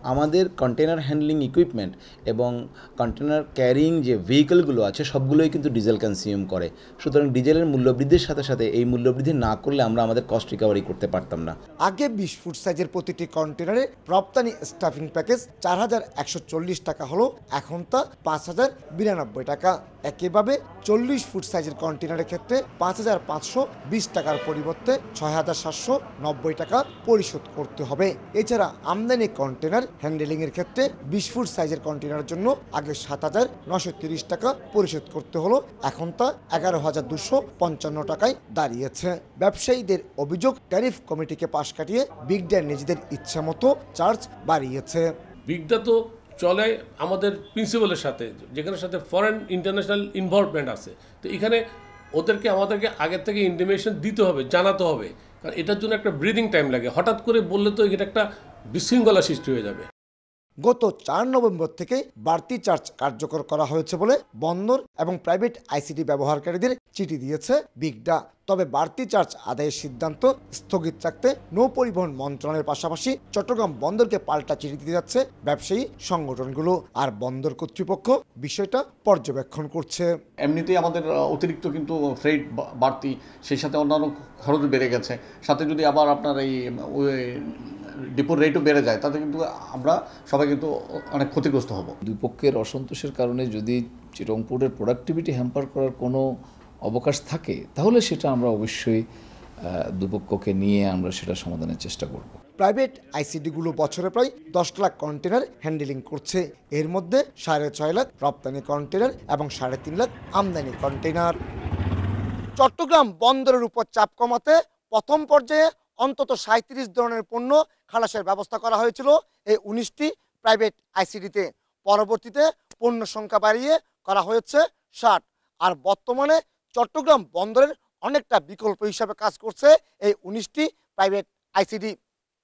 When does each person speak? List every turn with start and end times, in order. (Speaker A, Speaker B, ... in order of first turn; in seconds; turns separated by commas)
Speaker A: 0.1-11.5, Speaker B: 11.8-45.1, Speaker C: 45.5-51.6, Speaker C: 52.2-59.8, Speaker B: 60.6-80.1, Speaker D: 80.5-87.1, Speaker D: 88.2-91.9, Speaker E: 92.0-96.2, Speaker E: 96.8-99.0, Speaker E: 100.0-102.4, Speaker B: 102.6-111.3, Speaker B: 112.6-131.9